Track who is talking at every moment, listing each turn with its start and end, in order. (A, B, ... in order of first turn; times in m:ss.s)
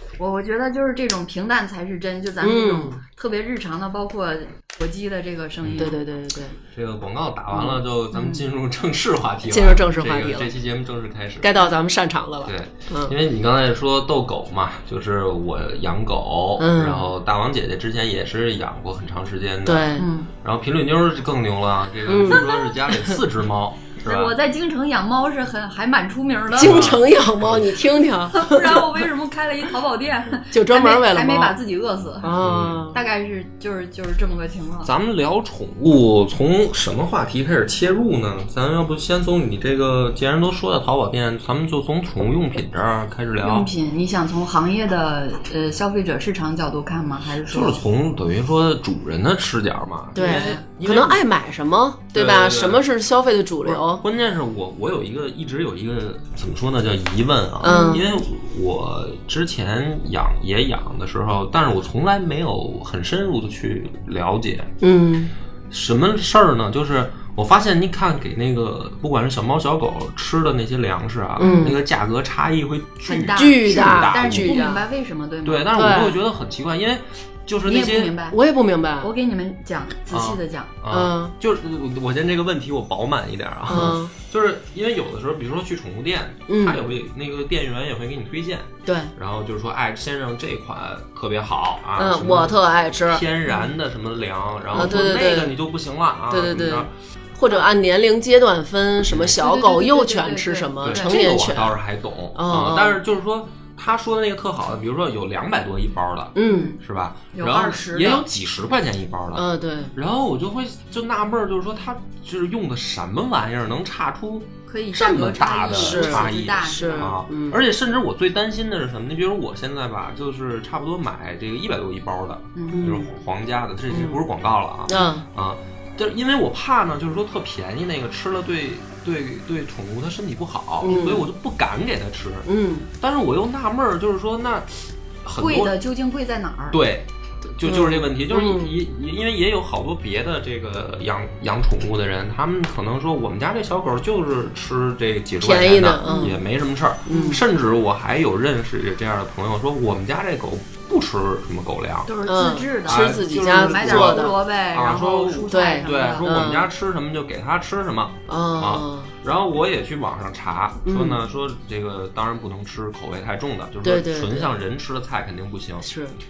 0:00.2-0:06.0 A
0:02.4-0:03.0 B
0:05.6-0:05.9 C
0:05.8-0:06.6 B
0:06.7-0:11.6 C
0:07.5-0:07.8 B
0:08.1-0:08.4 A
0:09.5-0:10.5 B
0:11.4-0:13.1 B
0:12.4-0:24.3 C
0:16.6-0:17.1 B
0:19.6-0:20.1 B
0:20.0-0:20.3 A
0:22.1-0:23.2 B
0:24.0-0:27.0 A
0:26.6-0:29.0 B
0:26.6-0:27.8 C
0:28.3-0:34.9 A
0:30.5-0:31.6 B
0:32.2-0:32.9 B
0:32.4-0:32.8 C
0:34.8-0:43.7 C
0:43.4-0:47.8 A
0:47.5-0:51.2 C
0:50.1-0:54.0 B
0:50.2-0:50.6 A
0:52.1-0:52.8 C
0:53.6-1:04.7 C
0:57.6-0:58.1 B
1:04.8-1:05.3 B
1:05.7-1:14.6 C
1:11.4-1:11.8 B
1:11.4-1:11.7 A
1:13.0-1:15.7 A
1:13.3-1:14.8 B
1:15.4-1:18.2 C
1:15.7-1:16.2 B
1:17.6-1:18.4 A
1:18.3-1:19.1 B
1:19.0-1:20.7 A
1:20.1-1:36.9 C
1:20.9-1:21.3 B
1:23.7-1:24.1 B
1:26.5-1:26.8 B
1:28.8-1:29.1 B
1:32.0-1:33.2 B
1:34.7-1:35.6 B
1:36.3-1:41.8 B
1:39.1-1:39.4 C
1:39.3-1:41.3 A
1:40.8-2:12.5 C
1:42.3-1:43.0 B
1:46.3-1:46.7 B
1:46.4-1:46.8 A
1:47.3-1:48.2 A
1:49.3-1:49.9 B
1:54.7-1:57.1 A
1:55.6-1:57.6 B
2:02.5-2:02.8 A
2:02.7-2:03.1 B
2:03.9-2:04.2 B
2:04.9-2:05.2 B
2:10.8-2:11.3 B
2:12.4-2:12.9 B
2:13.0-2:15.8 C
2:15.4-2:16.8 A
2:16.7-2:32.1 C
2:17.6-2:18.8 B
2:25.4-2:26.4 B
2:27.1-2:27.4 B
2:32.0-2:36.4 A
2:32.2-2:34.4 B
2:32.8-2:45.9 C
2:35.5-2:36.7 B
2:38.3-2:39.1 B
2:40.8-2:41.2 B
2:43.8-2:44.5 B
2:45.8-2:46.2 B